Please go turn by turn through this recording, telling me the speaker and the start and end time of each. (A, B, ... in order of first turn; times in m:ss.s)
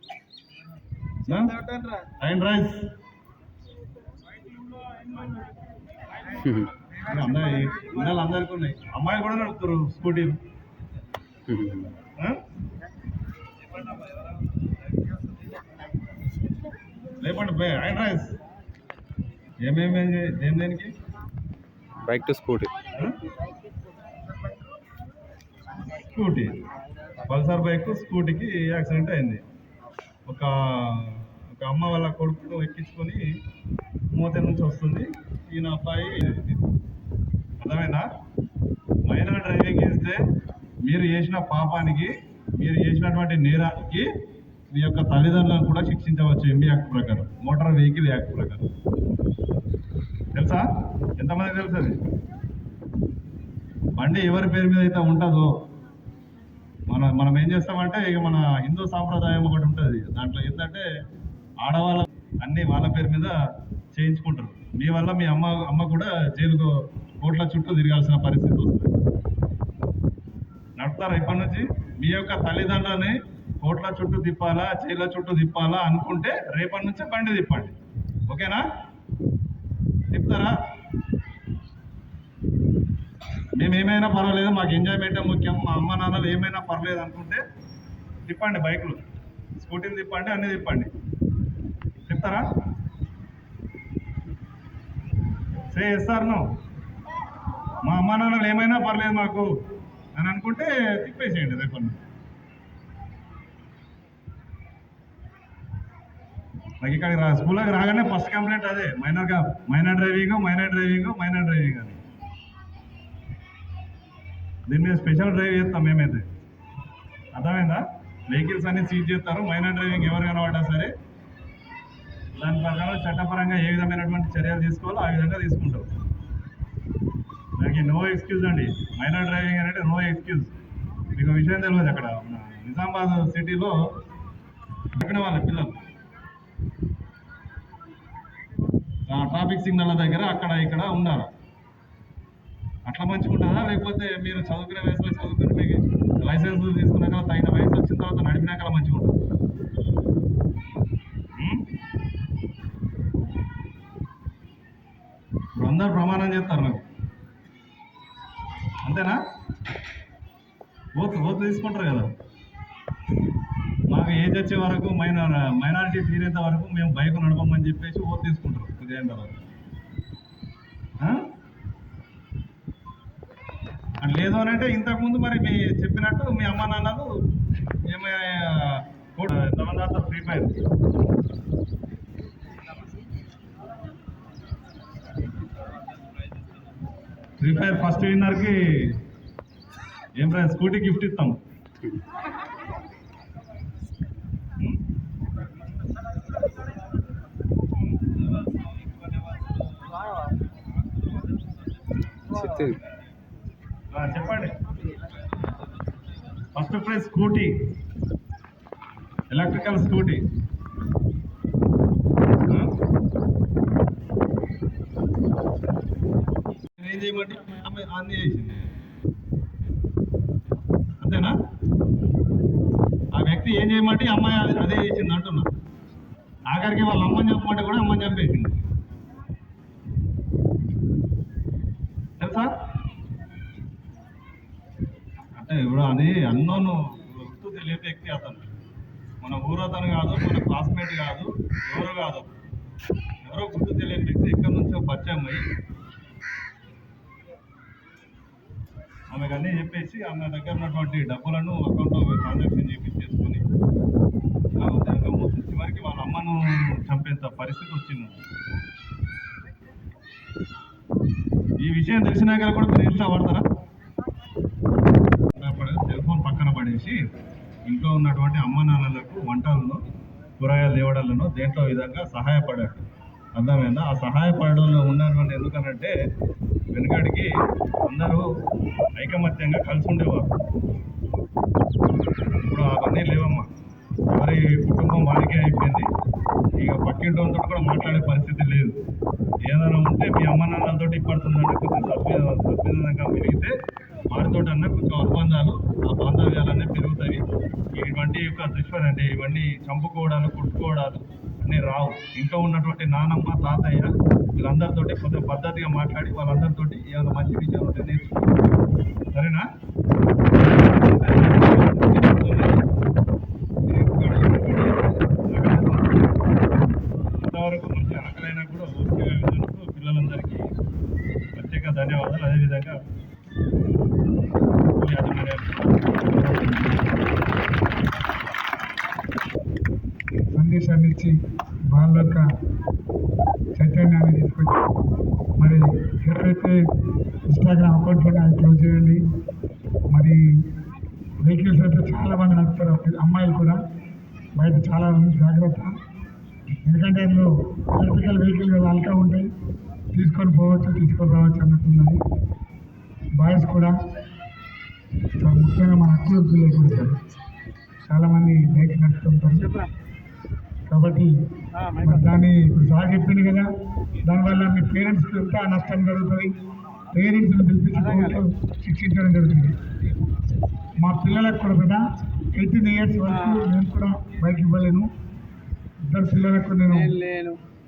0:01.2-0:02.9 A
0:06.4-0:06.7 B
0:07.0-0:10.4 A
0:11.5-0:11.9 B
0:17.2-0:18.4 A
0:19.6-0:20.9 A
0:22.0-0:22.7 B
0:26.0-0:26.6 A
0:27.2-0:29.4 A
0:30.3-0:33.2 A
0:34.1-0:36.6 A
0:37.6-0:38.1 A
0:39.1-0:40.2 A
0:40.9-0:44.1 A
0:44.7-0:48.7 A
0:50.3-0:50.6 A
0:51.2-0:52.0 A
0:54.0-0:55.5 A
0:56.9-1:00.8 A
1:01.6-1:03.3 A
1:03.9-1:08.9 A
1:10.8-1:17.8 A
1:18.3-1:18.6 A
1:20.1-1:20.5 A
1:23.6-1:27.4 A
1:28.3-1:29.0 A
1:29.6-1:30.9 A
1:32.1-1:32.4 A
1:35.7-1:36.4 A
1:37.8-1:39.5 A
1:40.1-1:42.0 A
1:46.8-1:52.0 A
1:54.7-1:56.2 A
1:57.3-2:00.9 A
2:02.3-2:05.9 A
2:07.6-2:10.5 A
2:11.1-2:13.8 A
2:14.9-2:15.8 A
2:19.1-2:21.3 A
2:22.9-2:29.2 A
2:31.4-2:31.7 A
2:35.6-2:36.9 A
2:38.8-2:39.2 A
2:41.0-2:42.1 A
2:43.9-2:49.4 A
2:51.0-2:51.3 A
2:54.0-3:00.5 A
3:07.4-3:09.0 A
3:10.2-3:11.4 A
3:22.3-3:22.8 B
3:23.9-3:24.6 A
3:26.5-3:27.6 A
3:29.3-3:30.2 A
3:32.5-3:32.7 A
3:36.8-3:38.7 A
3:41.0-3:41.3 A
3:43.2-3:45.5 A
3:46.5-3:48.6 A
3:52.2-3:52.5 A
3:55.4-3:58.5 A
3:59.2-4:02.3 A
4:03.2-4:05.4 A
4:09.1-4:13.4 A
4:14.6-4:18.2 A
4:21.6-4:23.4 A
4:25.3-4:27.0 A
4:27.7-4:29.8 A
4:30.4-4:35.9 A
4:36.7-4:37.3 A
4:37.8-4:38.2 A
4:39.0-4:40.4 A
4:42.4-4:43.5 A
4:44.1-4:45.9 A
4:46.6-4:48.8 A
4:49.5-4:53.5 A
4:54.1-5:08.3 A
5:09.1-5:09.4 A
5:10.5-5:12.7 A
5:13.7-5:16.1 A
5:17.2-5:20.5 A
5:21.4-5:22.8 A
5:24.7-5:27.0 A
5:30.4-5:31.1 C
5:31.7-5:32.2 C
5:33.6-5:34.6 C
5:35.4-5:36.6 C
5:37.3-5:39.0 C
5:39.9-5:40.2 C
5:41.2-5:43.6 C
5:44.4-5:45.7 C
5:46.7-5:49.3 C
5:49.9-5:52.0 C
5:53.2-5:53.7 C
5:55.2-5:57.0 C
5:57.9-5:59.5 C
5:59.4-5:59.7 B
6:00.7-6:01.1 C
6:01.6-6:01.9 B
6:01.8-6:03.5 C
6:04.0-6:06.3 C
6:06.9-6:09.5 C
6:07.8-6:08.2 B
6:10.8-6:11.8 C
6:12.3-6:14.9 C
6:13.1-6:13.6 B
6:15.9-6:17.0 C
6:16.8-6:17.4 B